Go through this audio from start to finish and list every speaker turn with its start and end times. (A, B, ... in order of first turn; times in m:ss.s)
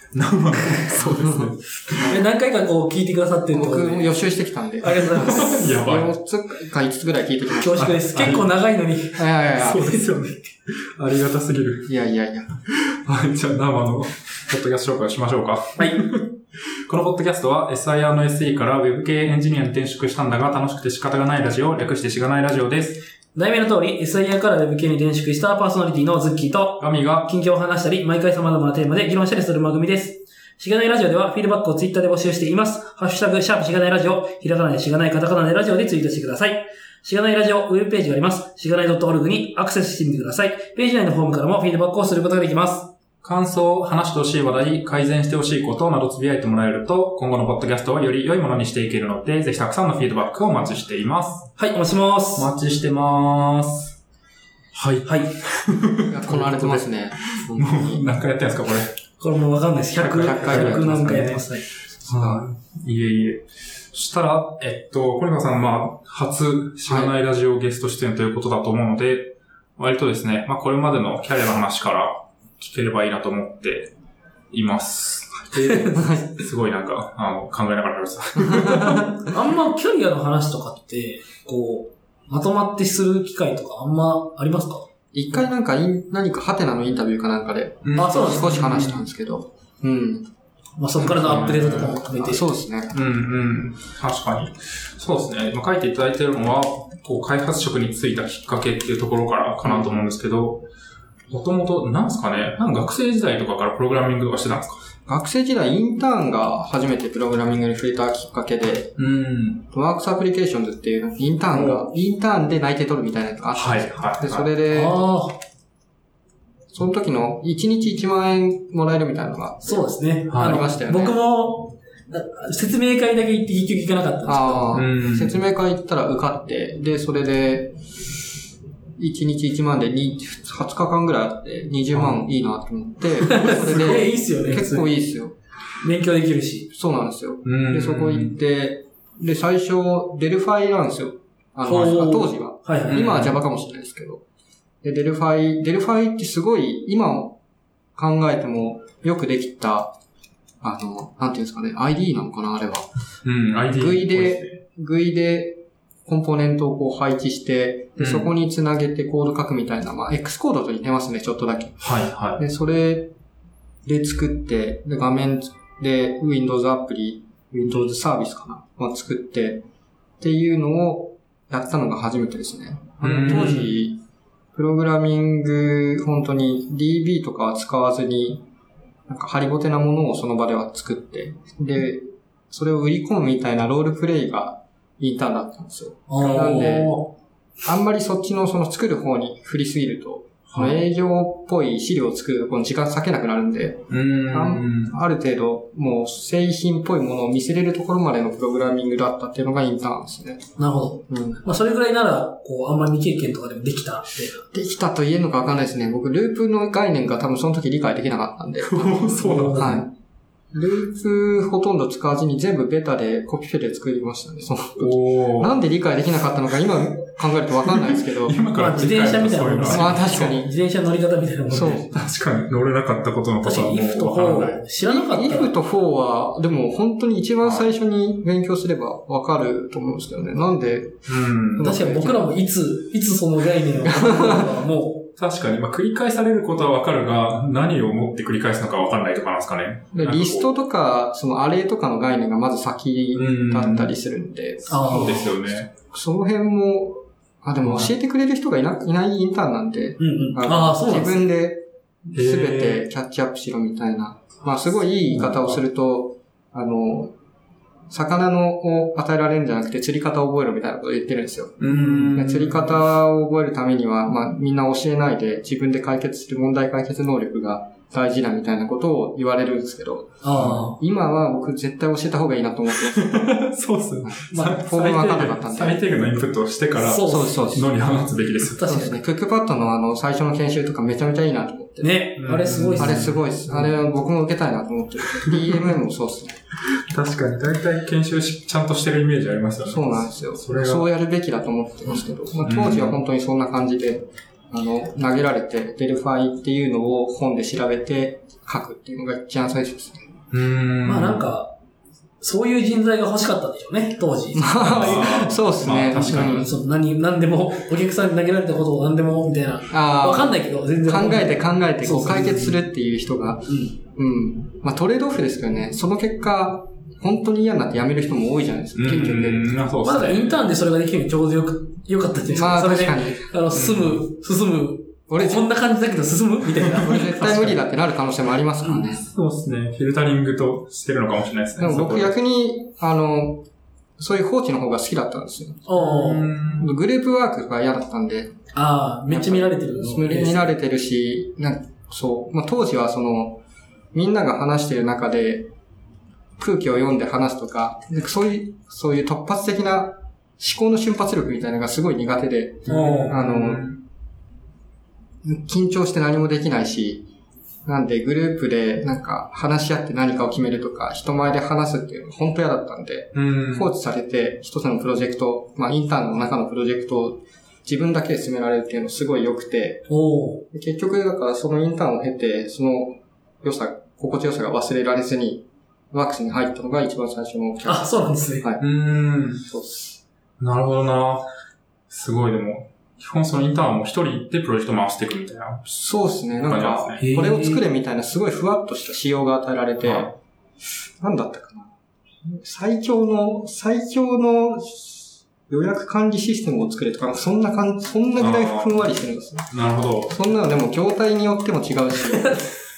0:00.1-0:02.2 A
0:00.6-0:01.5 B
0:02.1-0:04.2 C
0:03.5-0:07.9 B
0:04.8-0:05.6 C
0:05.2-0:06.1 A
0:07.6-0:09.2 C
0:07.7-0:08.5 A
0:09.2-0:10.1 B
0:09.5-0:11.9 A
0:11.8-0:12.5 B
0:12.7-0:23.0 A
0:23.3-0:42.9 C
0:26.8-0:27.3 A
0:43.2-0:51.5 A
0:51.6-0:52.5 C
0:52.3-0:54.0 A
0:54.7-0:56.9 A
0:55.0-0:55.3 C
0:56.1-0:58.1 B
0:57.5-0:58.9 A
0:59.2-1:01.6 C
1:00.0-1:01.5 A
1:00.2-1:01.4 B
1:02.0-1:02.4 B
1:02.1-1:13.9 A
1:06.8-1:07.1 B
1:14.5-1:19.1 A
1:15.5-1:16.2 C
1:15.6-1:16.3 B
1:18.4-1:19.3 B
1:19.2-1:24.8 C
1:25.1-1:30.3 B
1:27.8-1:29.0 A
1:28.0-1:28.8 C
1:30.8-1:32.4 C
1:31.0-1:33.0 B
1:31.0-1:32.0 A
1:32.9-1:40.6 A
1:39.6-1:39.9 B
1:41.3-1:44.8 A
1:45.0-1:49.0 B
1:49.0-1:49.6 A
1:49.7-1:55.0 B
1:51.5-1:52.0 C
1:53.5-1:54.5 A
1:54.7-1:55.4 C
1:56.7-2:01.2 B
1:59.6-2:04.7 C
2:00.3-2:00.6 A
2:04.2-2:07.8 B
2:04.7-2:05.4 A
2:09.0-2:15.3 B
2:11.9-2:12.2 A
2:13.2-2:14.9 C
2:15.8-2:16.7 C
2:16.7-2:24.2 B
2:17.4-2:18.4 A
2:21.6-2:23.1 C
2:22.9-2:23.4 A
2:24.8-2:27.4 B
2:28.0-2:29.9 B
2:30.6-2:32.9 B
2:33.2-2:34.6 A
2:33.7-2:43.1 B
2:38.0-2:38.3 A
2:41.8-2:42.4 A
2:43.8-2:49.6 B
2:50.2-2:54.0 B
2:53.0-2:53.7 A
2:53.2-2:53.7 C
2:54.5-2:58.4 B
2:59.1-3:07.0 B
3:06.1-3:07.1 C
3:07.6-3:20.4 B
3:10.5-3:10.8 A
3:13.9-3:14.9 A
3:20.6-3:24.4 C
3:21.1-3:21.4 B
3:24.5-3:29.9 B
3:28.6-3:29.8 A
3:29.2-3:29.8 C
3:30.5-3:38.4 B
3:34.8-3:35.6 A
3:37.6-3:40.4 A
3:38.5-3:41.8 C
3:39.7-3:40.5 B
3:41.5-3:42.0 B
3:41.6-3:44.6 A
3:43.4-3:45.5 C
3:44.8-3:52.3 B
3:51.1-3:51.7 A
3:51.6-3:55.1 C
3:53.9-3:54.5 B
3:55.2-4:00.5 A
3:59.9-4:17.1 B
4:03.1-4:04.0 A
4:04.7-4:05.4 C
4:04.8-4:05.7 A
4:07.6-4:07.9 A
4:10.0-4:11.2 C
4:12.1-4:12.8 A
4:15.0-4:15.6 A
4:17.9-4:33.4 B
4:21.6-4:22.7 A
4:21.7-4:22.1 C
4:30.2-4:30.8 C
4:32.8-4:38.6 A
4:34.0-4:35.8 B
4:34.3-4:35.3 C
4:36.8-4:37.4 C
4:37.0-4:37.8 B
4:38.5-4:39.0 C
4:38.6-4:42.0 B
4:41.8-4:43.2 C
4:42.2-4:43.7 A
4:42.8-4:46.4 B
4:46.7-4:50.8 A
4:49.6-5:00.1 B
4:52.4-4:53.0 A
5:00.3-5:01.3 A
5:00.8-5:01.5 C
5:02.2-5:04.9 C
5:04.3-5:06.5 B
5:04.6-5:06.5 A
5:05.9-5:12.6 C
5:09.7-5:19.6 B
5:13.5-5:13.7 C
5:18.7-5:20.4 A
5:19.8-5:27.6 C
5:22.3-5:23.3 B
5:23.5-5:24.0 A
5:25.1-5:25.4 B
5:26.8-5:29.1 B
5:29.0-5:32.1 A
5:31.6-5:33.4 B
5:34.0-5:35.6 B
5:35.6-5:36.3 C
5:35.8-5:36.7 A
5:36.5-5:38.3 B
5:38.5-5:40.5 C
5:39.1-5:43.4 B
5:43.9-5:45.5 B
5:46.4-5:53.7 B
5:52.7-5:53.1 C
5:52.7-5:53.8 A
5:55.2-5:57.0 B
5:57.6-6:09.9 B
6:03.1-6:03.7 A
6:09.9-6:10.4 C
6:10.5-6:18.6 B
6:17.6-6:18.5 C
6:18.6-6:19.4 A
6:19.4-6:20.0 B
6:20.4-6:21.3 A
6:21.9-6:25.6 A
6:25.7-6:30.1 B
6:26.4-6:27.2 A
6:27.0-6:27.6 C
6:29.8-6:30.1 A
6:31.0-6:39.5 B
6:38.2-6:38.8 A
6:39.5-6:40.2 A
6:40.1-6:42.3 B
6:42.0-6:42.5 C